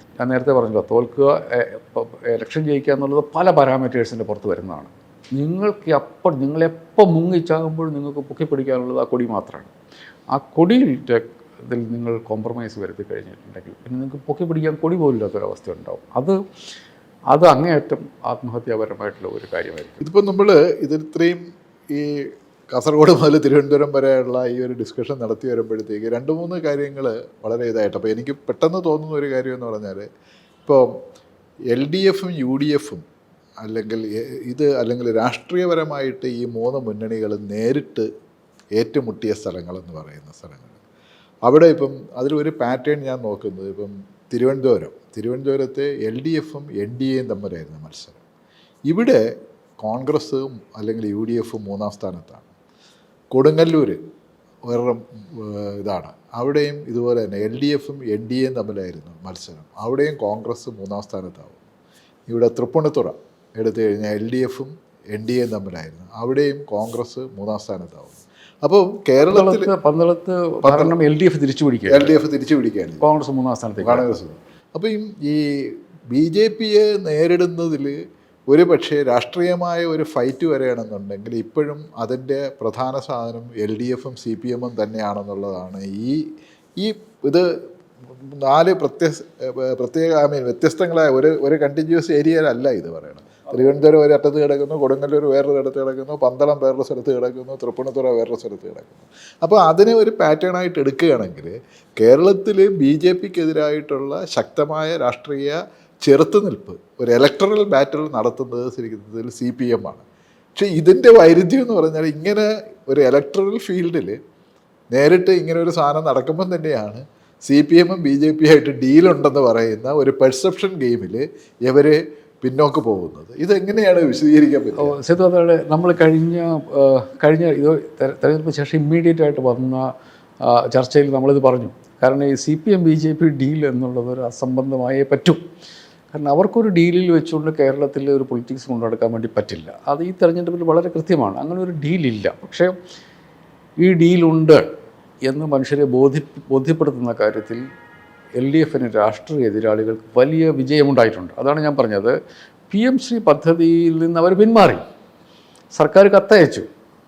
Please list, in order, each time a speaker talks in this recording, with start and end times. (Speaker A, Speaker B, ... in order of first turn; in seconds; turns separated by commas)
Speaker A: 0.2-9.7, Speaker A: 10.3-16.4, Speaker A: 17.3-20.0, Speaker B: 20.0-30.1, Speaker B: 30.6-30.9, Speaker B: 31.7-33.0, Speaker B: 33.6-38.1, Speaker B: 38.8-40.8, Speaker B: 41.4-48.2, Speaker B: 48.9-49.2, Speaker B: 49.8-52.5, Speaker B: 53.3-54.0, Speaker B: 54.7-61.6, Speaker B: 62.3-69.7, Speaker A: 69.3-72.2, Speaker B: 70.6-70.9, Speaker B: 71.9-73.0, Speaker A: 73.0-74.1, Speaker B: 73.8-75.4, Speaker B: 76.1-77.9, Speaker B: 78.5-86.2, Speaker B: 86.8-87.5, Speaker B: 88.2-110.0, Speaker B: 110.5-114.2, Speaker B: 114.9-124.9, Speaker A: 124.8-129.9, Speaker A: 130.4-135.4, Speaker A: 136.1-142.7, Speaker A: 143.8-144.6, Speaker A: 145.2-147.6, Speaker A: 148.4-152.1, Speaker A: 152.7-154.8, Speaker A: 155.7-156.7